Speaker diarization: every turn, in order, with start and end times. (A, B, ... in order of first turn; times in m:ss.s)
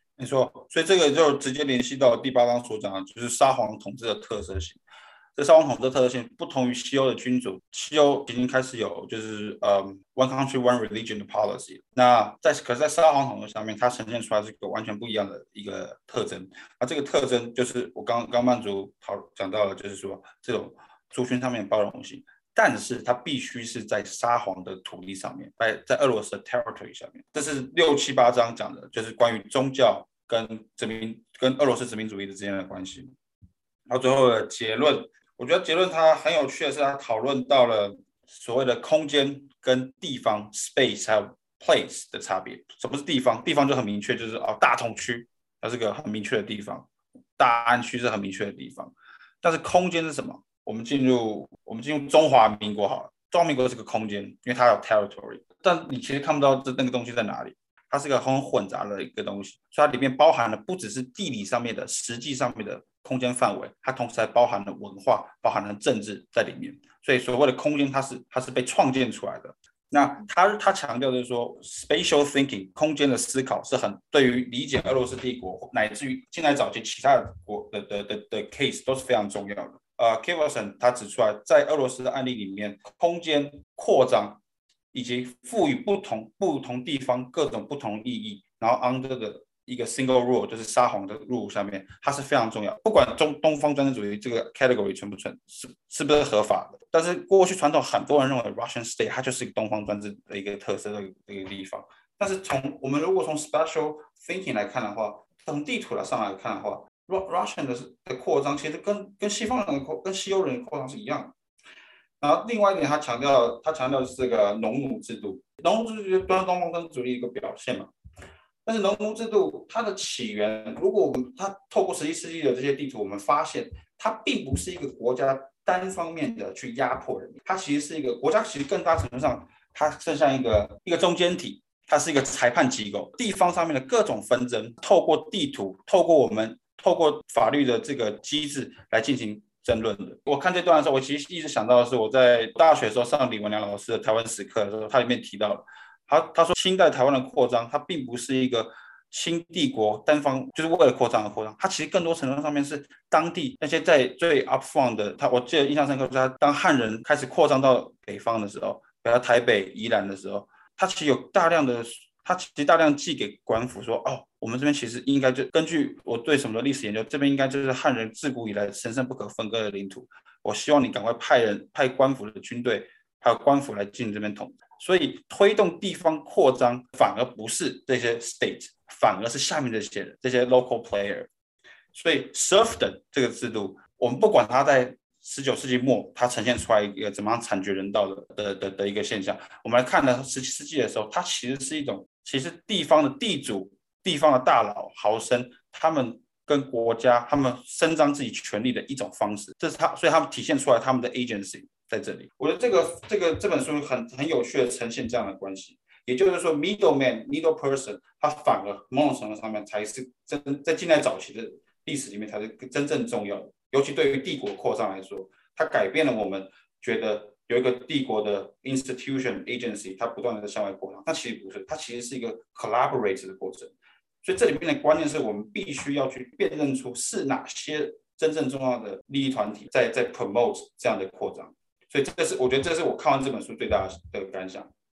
0:00.2-0:04.8 A
0:05.4-0:33.1 A
0:33.9-0:46.9 A
0:47.4-1:24.4 A
1:24.9-1:51.3 A
1:52.2-1:57.9 A
1:58.7-3:01.3 A
3:01.9-3:43.7 A
3:44.2-3:54.7 A